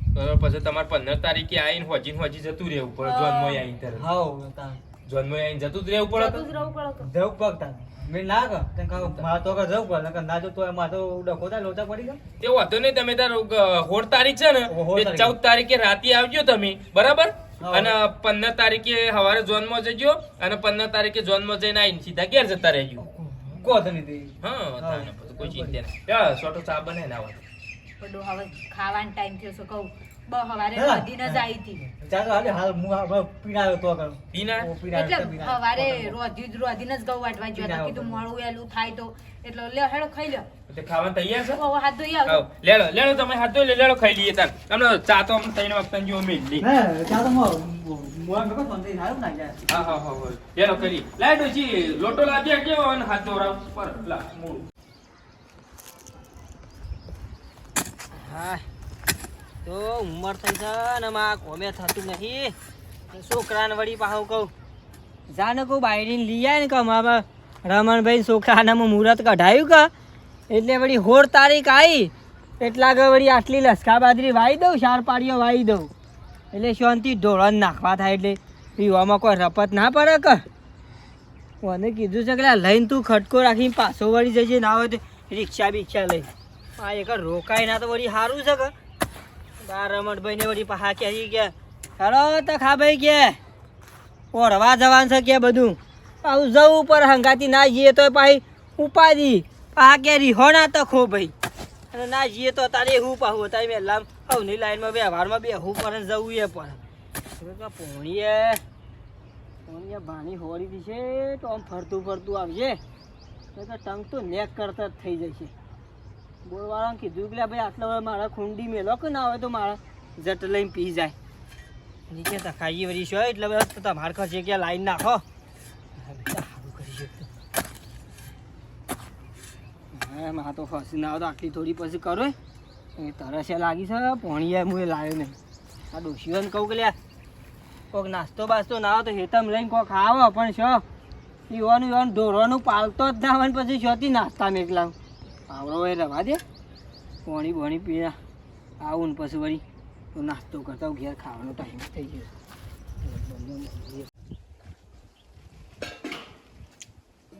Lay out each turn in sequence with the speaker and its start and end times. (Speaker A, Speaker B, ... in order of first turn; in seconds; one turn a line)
Speaker A: 0.1-4.0
Speaker B: 3.0-3.6
Speaker C: 4.0-4.8
Speaker A: 5.1-6.5
Speaker B: 6.1-7.1
Speaker C: 7.0-12.2
Speaker A: 8.9-9.3
Speaker A: 12.4-23.1
Speaker C: 14.7-15.4
Speaker C: 17.6-18.0
Speaker C: 23.0-25.8
Speaker A: 24.4-27.4
Speaker B: 28.0-31.8
Speaker C: 30.8-36.2
Speaker A: 34.3-34.7
Speaker B: 34.9-40.5
Speaker C: 37.5-38.2
Speaker A: 40.7-41.6
Speaker B: 41.5-42.4
Speaker A: 42.3-46.7
Speaker C: 46.6-49.6
Speaker A: 49.7-54.6
Speaker D: 58.1-58.7
Speaker D: 59.6-62.5
Speaker D: 63.1-64.5
Speaker D: 65.3-69.9
Speaker D: 70.5-75.9
Speaker D: 76.5-80.4
Speaker D: 81.6-88.7
Speaker D: 89.6-93.4
Speaker D: 94.3-101.3
Speaker D: 101.9-106.8
Speaker D: 107.4-108.6
Speaker D: 109.7-112.8
Speaker D: 113.5-115.5
Speaker D: 116.4-121.2
Speaker D: 122.1-125.2
Speaker D: 126.0-127.3
Speaker D: 129.9-132.3
Speaker D: 133.0-135.4
Speaker D: 135.9-137.0
Speaker D: 137.9-140.8
Speaker D: 141.5-144.9
Speaker D: 145.5-146.4
Speaker D: 147.2-148.2
Speaker D: 148.8-149.6
Speaker D: 150.1-152.3
Speaker D: 153.2-153.9